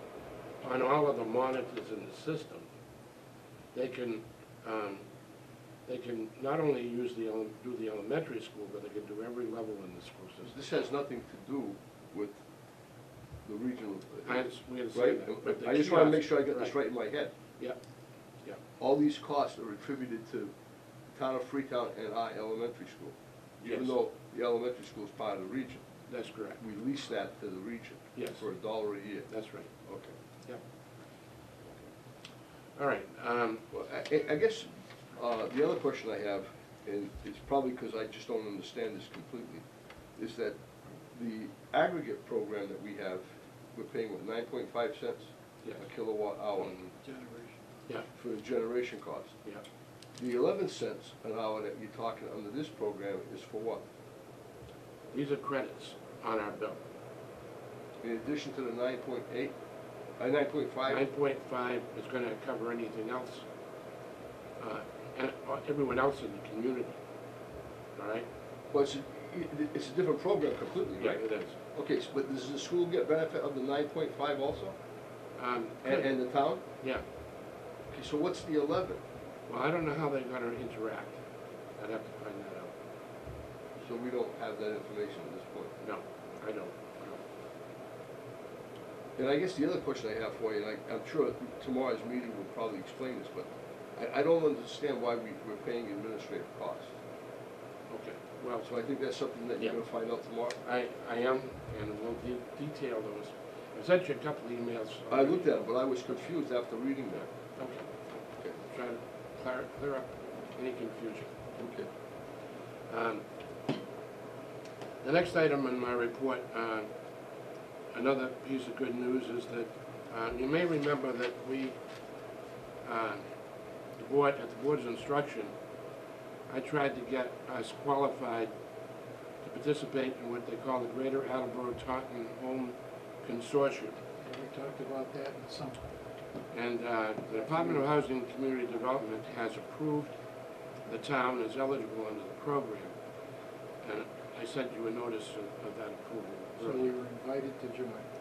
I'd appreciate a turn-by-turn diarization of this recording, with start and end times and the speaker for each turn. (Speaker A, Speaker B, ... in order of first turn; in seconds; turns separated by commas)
Speaker A: 0.6-2.7, Speaker A: 3.7-5.0, Speaker A: 5.9-10.7, Speaker B: 10.4-12.4, Speaker B: 13.4-17.3, Speaker A: 14.3-16.8, Speaker B: 18.8-20.5, Speaker B: 21.1-25.9, Speaker A: 23.7-24.0, Speaker A: 26.1-26.6, Speaker B: 26.6-30.1, Speaker A: 28.1-28.5, Speaker A: 29.3-29.7, Speaker A: 32.8-33.6, Speaker B: 33.7-46.8, Speaker A: 45.6-45.9, Speaker A: 46.6-46.9, Speaker C: 47.0-47.6, Speaker B: 48.1-49.4, Speaker B: 50.2-53.8, Speaker A: 55.1-56.8, Speaker B: 58.0-59.6, Speaker B: 60.2-61.0, Speaker A: 60.9-63.5, Speaker A: 64.6-67.0, Speaker A: 68.0-68.3, Speaker B: 68.7-74.8, Speaker A: 71.0-71.6, Speaker A: 75.4-77.0, Speaker B: 75.8-76.6, Speaker B: 77.9-79.0, Speaker A: 79.5-81.2, Speaker A: 81.8-82.7, Speaker B: 83.8-85.8, Speaker A: 85.8-87.2, Speaker B: 89.2-96.9, Speaker A: 97.9-98.7, Speaker B: 98.6-100.6, Speaker A: 100.6-105.5, Speaker B: 105.1-107.3, Speaker A: 107.6-107.9, Speaker A: 108.6-111.3, Speaker B: 111.6-111.9, Speaker A: 112.9-113.2, Speaker A: 115.0-116.9, Speaker A: 117.9-121.8, Speaker A: 122.8-123.3, Speaker A: 123.9-125.5, Speaker A: 126.5-128.5, Speaker A: 129.4-134.0, Speaker C: 134.2-136.0, Speaker A: 136.5-143.0, Speaker C: 137.4-137.9, Speaker A: 143.8-146.9, Speaker C: 146.6-148.1